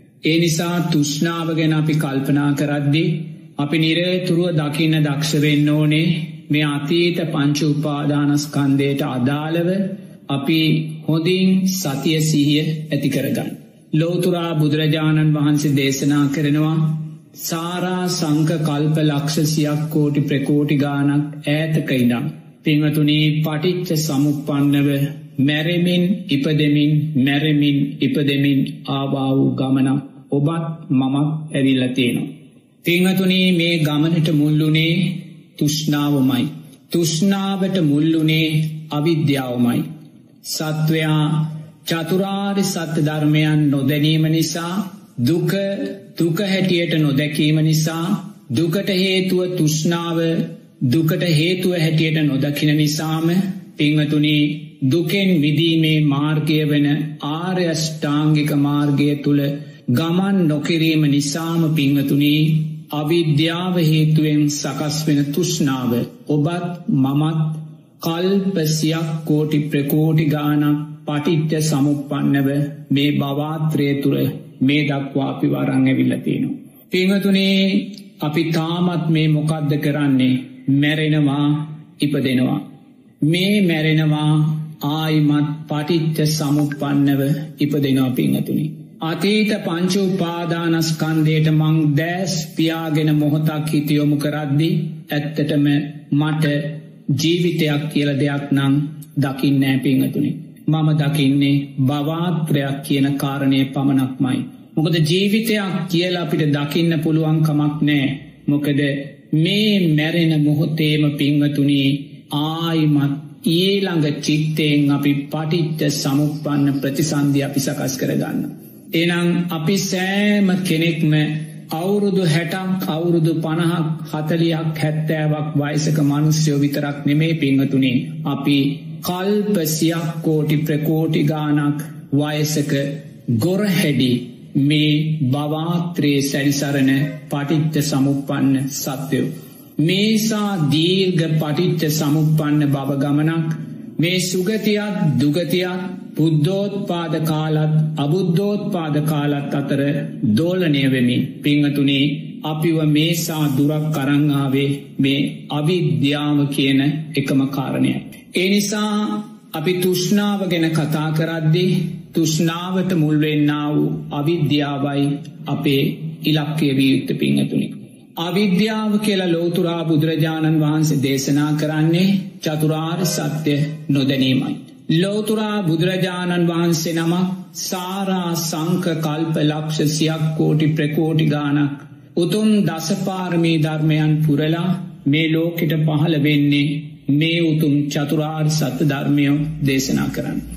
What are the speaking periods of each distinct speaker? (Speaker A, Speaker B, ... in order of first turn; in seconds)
Speaker A: 0.2-32.3, 32.8-39.8, 40.4-82.6, 83.2-190.4